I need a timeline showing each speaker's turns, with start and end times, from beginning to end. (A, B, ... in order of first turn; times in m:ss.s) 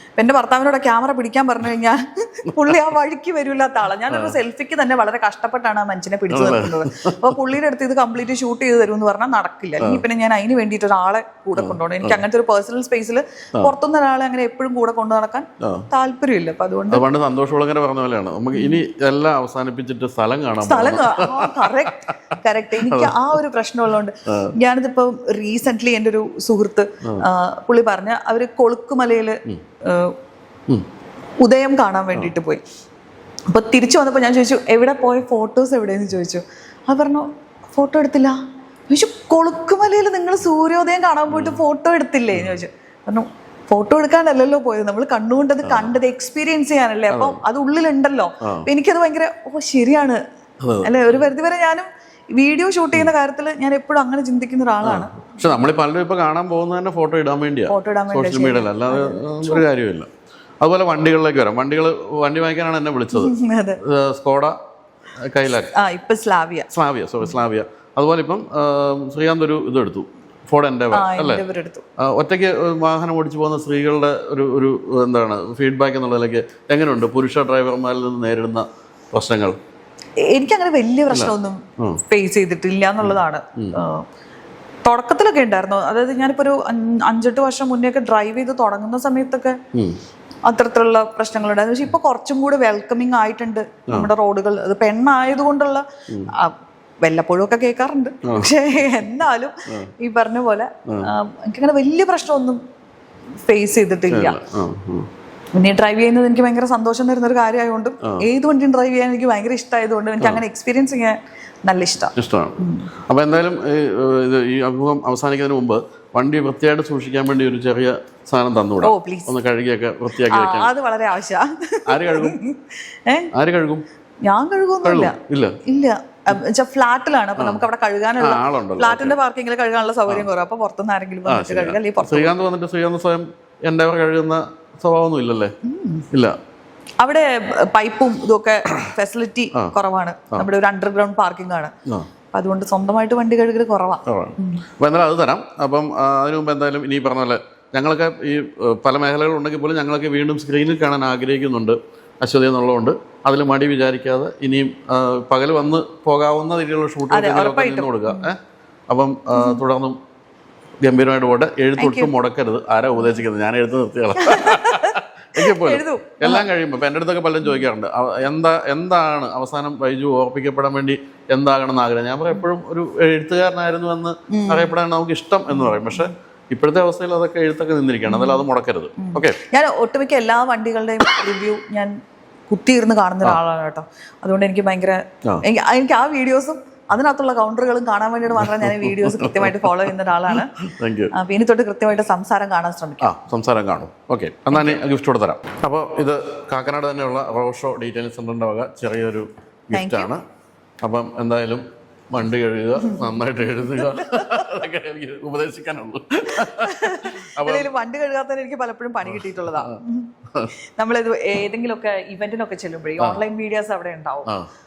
0:00.2-0:17.0 A
0:04.1-0:04.4 B
0:06.3-0:07.4 B
0:11.6-0:12.2 B
0:15.6-0:15.9 B
0:16.9-0:22.1 B
0:18.5-0:18.8 A
0:20.6-0:30.2 A
0:22.8-0:23.3 B
0:24.3-0:24.5 B
0:31.4-0:32.6 A
0:33.5-0:38.4 A
0:38.9-0:50.2 A
0:41.3-0:41.6 B
0:45.6-0:45.9 B
0:47.1-0:47.4 B
0:48.4-0:48.7 B
0:50.6-0:51.2 B
0:50.8-0:55.2 A
0:54.8-1:00.1 B
0:57.7-0:59.6 A
1:00.6-1:04.6 B
1:03.1-1:03.8 A
1:05.2-1:05.7 B
1:05.7-1:06.7 A
1:06.7-1:11.4 B
1:10.9-1:11.8 A
1:12.0-1:19.6 B
1:20.3-1:24.0 A
1:21.1-1:22.0 B
1:23.0-1:23.8 B
1:24.8-1:29.6 A
1:30.5-1:42.6 A
1:38.2-1:38.6 B
1:43.5-1:44.4 A
1:44.1-1:45.1 B
1:45.6-1:52.9 A
1:52.2-2:00.7 B
1:58.8-1:59.3 A
2:00.2-2:03.3 A
2:01.9-2:02.4 B
2:03.3-2:03.8 B
2:04.3-2:12.4 A
2:04.8-2:05.6 B
2:07.4-2:07.6 B
2:08.2-2:09.2 B
2:11.3-2:15.5 B
2:15.6-2:16.1 A
2:17.0-2:21.7 A
2:22.3-2:24.6 A
2:24.1-2:38.4 B
2:37.1-2:38.3 A
2:38.9-2:40.0 B
2:39.4-2:39.6 A
2:40.8-2:59.4 B
2:41.8-2:42.1 A
2:44.2-2:46.5 A
2:54.3-2:54.7 A
2:55.5-2:56.1 A
2:58.1-2:58.5 A
2:59.0-3:02.0 A
3:02.5-3:10.5 A
3:08.3-3:11.1 B
3:11.1-3:13.1 A
3:13.0-3:20.2 B
3:14.5-3:14.8 A
3:19.7-3:20.1 A
3:20.8-3:27.7 B
3:22.8-3:23.2 A
3:23.7-3:24.4 A
3:26.4-3:30.1 A
3:29.1-3:29.8 B
3:30.8-3:34.3 A